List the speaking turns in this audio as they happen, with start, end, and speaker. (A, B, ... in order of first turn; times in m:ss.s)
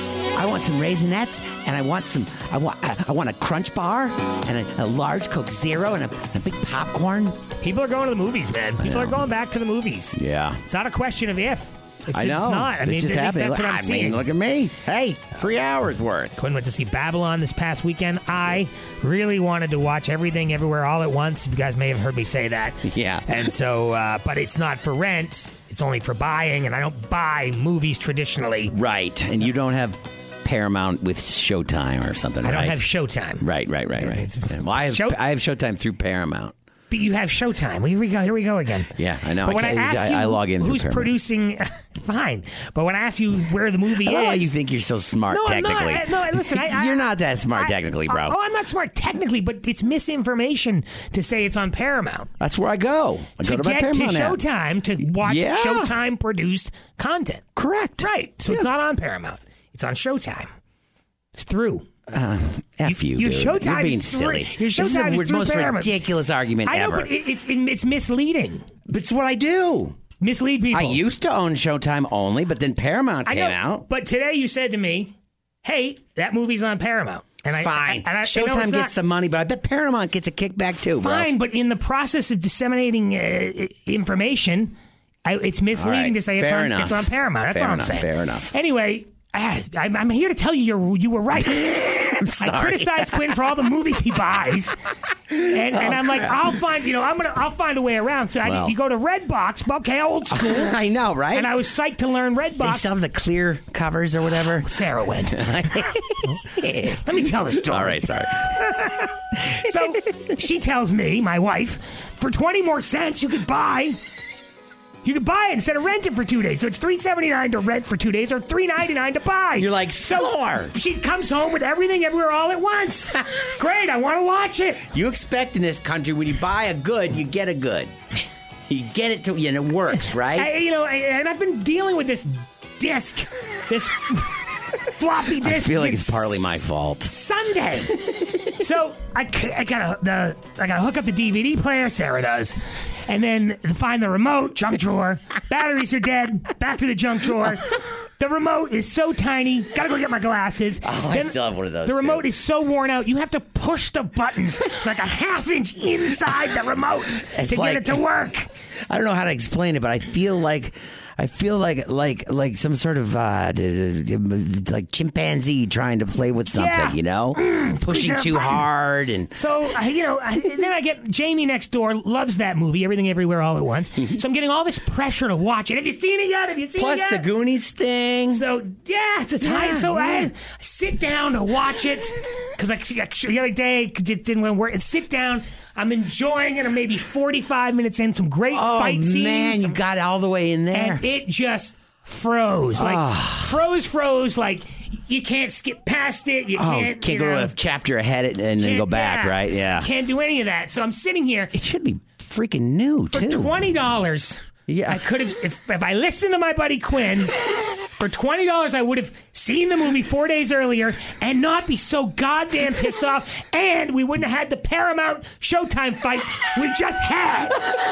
0:00.3-0:07.4 A
0:07.6-0:14.2 B
0:08.8-0:09.2 A
0:10.1-0:10.6 A
0:12.1-0:16.4 A
0:16.4-0:28.7 B
0:22.8-0:23.3 A
0:28.7-0:32.8 A
0:32.4-0:33.5 B
0:33.4-0:36.5 A
0:34.0-0:35.2 B
0:36.9-0:44.6 B
0:39.0-0:41.2 A
0:43.9-0:48.4 A
0:45.3-0:52.3 B
0:52.4-0:54.4 A
0:53.4-0:57.4 B
0:55.2-0:55.9 A
0:57.6-0:58.6 A
0:58.0-1:00.5 B
1:01.3-1:01.9 B
1:02.1-1:07.1 A
1:02.8-1:06.1 B
1:06.7-1:08.7 B
1:08.9-1:10.0 A
1:10.2-1:11.0 B
1:10.7-1:13.8 A
1:13.3-1:15.1 B
1:15.6-1:18.9 B
1:17.6-1:21.2 A
1:20.8-1:34.8 B
1:25.7-1:28.5 A
1:32.2-1:33.3 A
1:35.3-1:36.4 A
1:35.4-1:40.8 B
1:38.4-1:38.8 A
1:40.3-1:41.5 A
1:41.3-1:42.9 B
1:42.6-1:44.7 A
1:44.5-1:45.8 B
1:45.3-1:47.0 A
1:46.9-1:54.0 B
1:47.5-1:48.5 A
1:55.0-2:04.9 B
1:59.6-2:00.7 A
2:04.9-2:07.9 A
2:08.7-2:10.5 A
2:10.3-2:22.6 B
2:15.4-2:17.1 A
2:23.1-2:38.5 B
2:30.8-2:32.3 A
2:37.2-2:38.0 A
2:38.9-2:49.3 A
2:46.5-2:48.7 B
2:49.3-2:57.2 B
2:56.8-2:58.4 A
2:58.3-3:09.8 B
2:59.4-3:00.3 A
3:08.5-3:11.0 A
3:10.7-3:17.5 B
3:12.8-3:13.6 A
3:16.6-3:19.9 A
3:18.6-3:21.5 B
3:21.5-3:23.5 A
3:23.1-3:27.3 B
3:24.7-3:25.0 A
3:27.9-3:37.6 B